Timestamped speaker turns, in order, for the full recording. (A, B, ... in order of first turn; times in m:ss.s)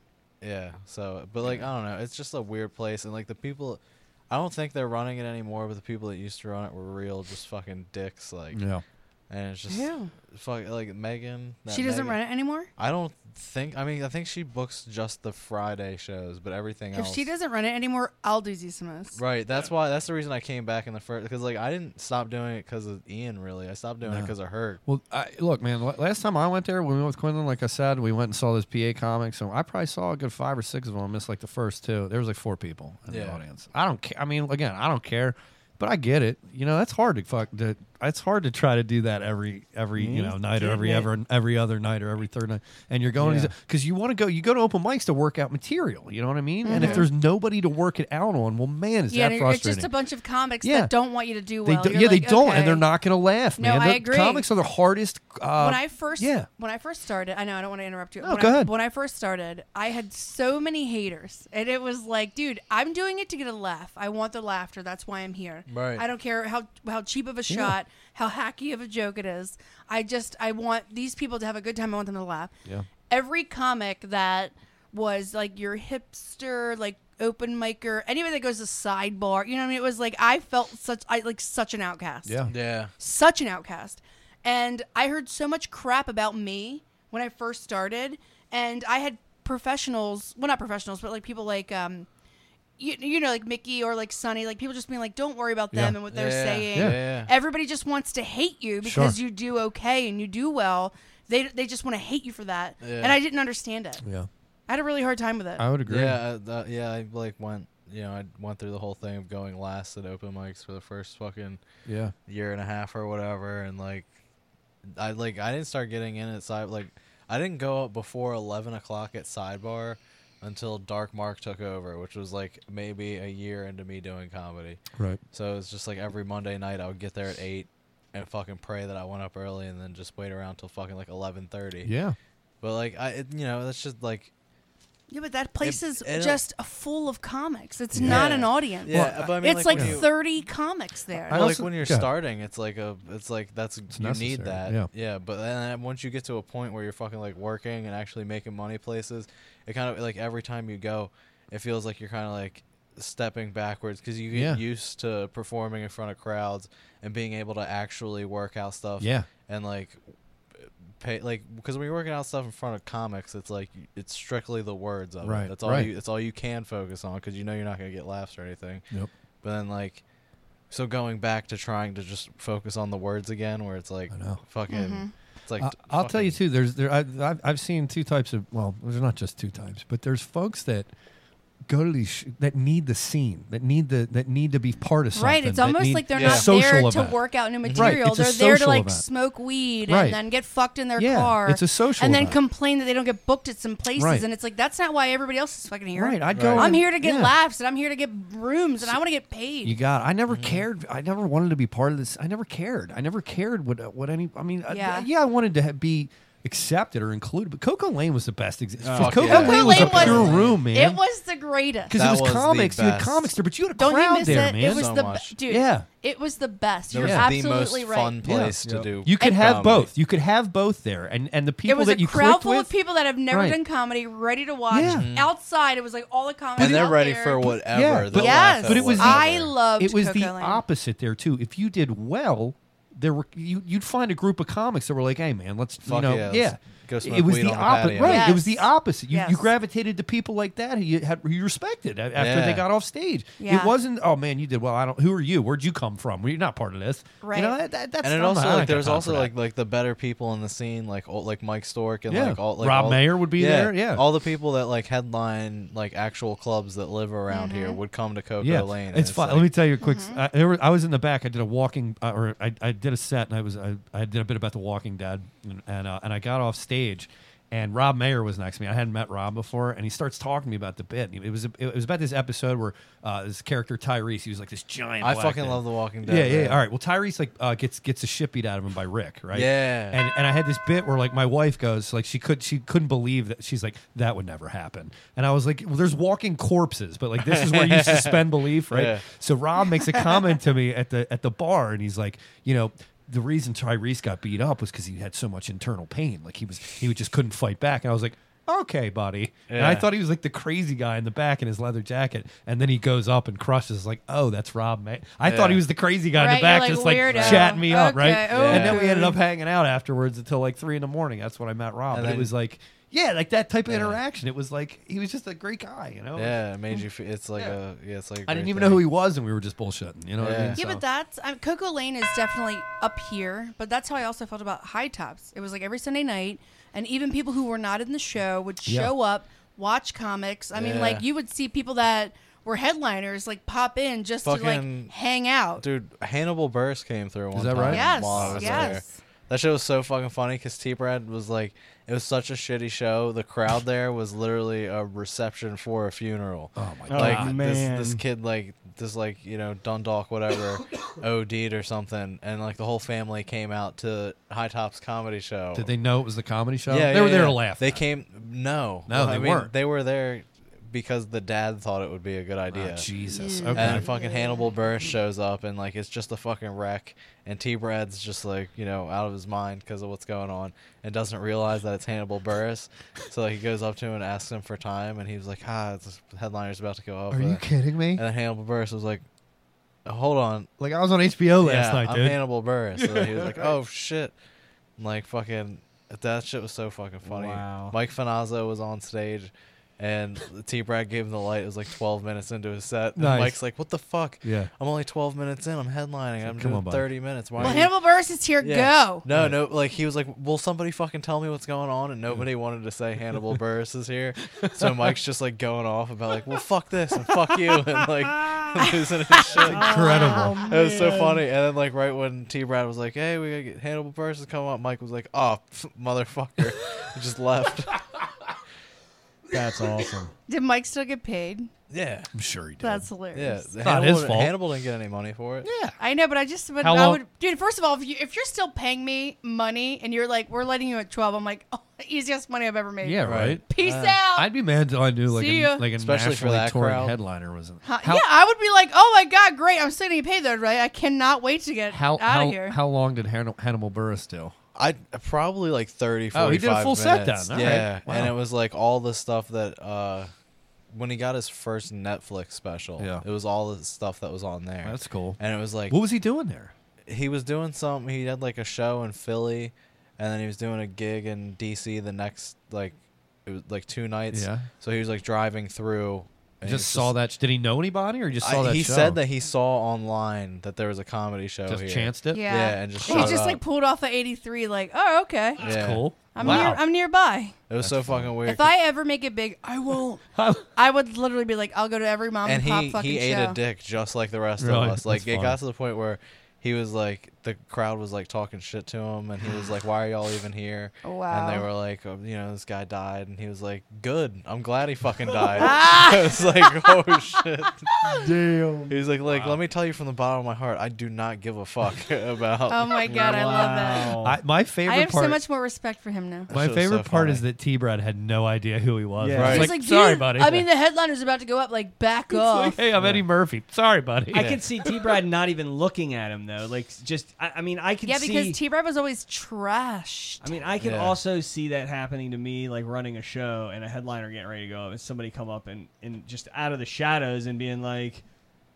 0:00.4-0:08.6 A
0:08.5-0:08.8 B
0:09.3-0:12.2 A
0:09.7-0:10.1 C
0:11.7-0:12.7 C
0:12.8-0:17.3 A
0:17.0-0:19.2 C
0:19.2-0:24.8 A
0:24.0-0:24.3 B
0:24.8-0:49.9 B
0:33.1-0:33.4 A
0:40.0-0:41.0 D
0:43.2-0:43.5 D
0:46.6-0:47.1 C
0:46.7-0:47.1 A
0:49.1-0:52.9 C
0:50.6-0:50.9 B
0:51.6-0:56.5 B
0:53.6-0:54.5 C
0:55.6-1:12.5 C
0:58.2-0:58.7 B
1:05.7-1:06.0 A
1:07.5-1:07.8 B
1:13.1-1:22.4 C
1:22.3-1:22.5 B
1:22.5-1:22.9 A
1:23.0-1:32.1 C
1:32.8-1:44.0 C
1:35.7-1:36.0 B
1:36.1-1:37.3 A
1:36.7-1:37.1 B
1:38.8-1:39.2 B
1:42.8-1:43.2 A
1:44.0-1:44.3 B
1:44.7-1:45.7 C
1:45.6-1:46.2 B
1:45.9-1:51.6 A
1:51.9-1:52.1 B
1:52.3-1:54.1 A
1:54.9-2:04.8 A
2:05.3-2:11.9 A
2:11.8-2:12.2 B
2:12.6-2:14.3 A
2:15.1-2:21.4 C
2:15.6-2:16.4 A
2:17.9-2:18.4 B
2:18.0-2:20.1 A
2:18.9-2:20.0 B
2:21.3-2:22.1 B
2:21.3-2:40.0 A
2:23.9-2:24.9 B
2:34.3-2:34.6 B
2:39.0-2:39.3 B
2:40.6-2:48.8 A
2:45.2-2:45.9 B
2:49.4-2:50.0 A
2:50.7-2:56.4 A
2:54.1-2:54.4 B
2:54.7-2:55.1 C
2:55.6-3:00.9 B
3:01.7-3:09.0 B
3:05.2-3:19.8 C
3:06.1-3:06.5 A
3:07.6-3:08.0 A
3:09.8-3:10.2 B
3:11.0-3:12.4 B
3:14.0-3:14.3 B
3:16.0-3:17.4 B
3:16.3-3:16.8 A
3:19.6-3:31.0 B
3:20.3-3:20.6 A
3:24.7-3:25.1 C
3:28.8-3:30.5 A
3:28.8-3:29.3 D
3:29.2-3:32.0 C
3:31.9-3:35.9 B
3:31.9-3:33.3 A
3:33.8-3:38.2 C
3:34.2-3:35.4 A
3:36.9-3:39.9 A
3:37.0-3:37.3 B
3:38.2-3:42.7 B
3:38.6-3:38.9 D
3:39.2-3:39.6 C
3:41.7-3:47.6 C
3:43.3-3:43.6 B
3:44.7-3:45.1 B
3:44.8-3:45.3 A
3:46.6-3:49.6 A
3:46.6-4:09.3 B
3:48.1-3:50.6 C
3:55.8-3:58.4 A
3:58.0-3:59.5 C
4:02.2-4:02.7 A
4:03.4-4:03.7 C
4:07.2-4:07.6 C
4:08.0-4:19.5 A
4:12.1-4:14.1 B
4:17.3-4:17.8 C
4:18.4-5:16.4 B
4:19.8-4:20.2 C
4:35.0-4:36.6 A
4:39.3-4:40.0 A
4:47.2-4:49.0 A
4:59.5-4:59.9 A
5:05.2-5:05.6 A
5:06.2-5:09.2 C
5:07.1-5:07.6 A
5:08.3-5:08.8 A
5:11.9-5:12.3 A
5:13.7-5:14.0 A
5:16.2-5:18.8 A
5:18.3-5:20.8 B
5:20.2-5:20.6 A
5:20.6-5:35.6 C
5:28.7-5:28.9 B
5:30.5-5:31.1 A
5:34.2-5:34.9 A
5:35.6-5:55.7 A
5:37.3-5:38.8 B
5:37.7-5:39.0 C
5:46.6-5:47.4 B
5:46.9-5:48.0 D
5:55.5-5:57.8 B
5:56.7-6:02.9 A
5:58.9-5:59.5 B
6:02.5-6:03.9 B
6:03.1-6:04.6 C
6:03.6-6:19.0 A
6:17.1-6:18.0 B
6:19.8-6:20.5 A
6:20.6-6:22.2 B
6:21.4-6:24.1 A
6:22.7-6:23.5 B
6:24.8-6:37.7 A
6:27.1-6:27.8 D
6:33.0-6:33.4 B
6:34.2-6:34.5 B
6:36.2-6:37.6 B
6:37.4-6:39.1 C
6:38.4-6:49.7 A
6:39.1-6:39.4 B
6:44.4-6:44.9 B
6:49.3-6:50.5 C
6:49.4-6:50.5 B
6:49.5-6:51.2 D
6:50.5-6:57.9 A
6:59.3-7:00.1 D
7:00.3-7:01.5 C
7:01.7-7:02.1 A
7:02.1-7:02.9 B
7:02.6-7:03.5 C
7:03.1-7:05.5 A
7:03.6-7:04.4 B
7:05.4-7:05.8 B
7:05.8-7:14.3 C
7:06.6-7:07.0 B
7:12.8-7:13.4 B
7:13.0-7:14.0 A
7:14.1-7:18.1 B
7:15.1-7:15.7 C
7:15.8-7:17.0 A
7:17.6-7:22.6 C
7:21.7-7:24.4 B
7:24.6-7:30.1 A
7:26.1-7:28.2 B
7:30.7-7:35.8 A
7:32.8-7:33.0 B
7:34.6-7:36.5 B
7:36.9-7:47.0 A
7:44.1-7:44.5 B
7:46.4-7:49.0 B
7:48.2-7:53.4 A
7:51.5-7:52.2 B
7:52.1-7:55.6 C
7:52.8-7:53.3 B
7:55.4-7:56.6 A
7:55.4-7:56.6 B
7:56.1-7:57.4 C
7:57.5-7:58.5 A
7:57.6-7:58.2 B
7:58.3-8:00.0 C
8:00.2-8:00.5 B
8:00.6-8:03.4 C
8:02.2-8:17.7 A
8:04.4-8:05.4 B
8:10.8-8:11.5 C
8:15.3-8:17.0 C
8:17.7-8:18.1 C
8:18.0-8:18.8 D
8:18.7-8:23.7 A
8:19.1-8:19.4 B
8:22.5-8:24.0 C
8:22.9-8:24.2 D
8:24.0-8:25.2 B
8:24.7-8:26.3 C
8:26.3-8:27.2 A
8:26.3-8:30.5 B
8:29.0-8:29.5 D
8:29.2-8:29.5 A
8:29.3-8:32.6 C
8:32.1-8:34.7 B
8:32.8-8:33.0 D
8:34.1-8:38.4 D
8:37.8-8:40.3 C
8:40.2-8:48.0 D
8:40.6-8:41.0 A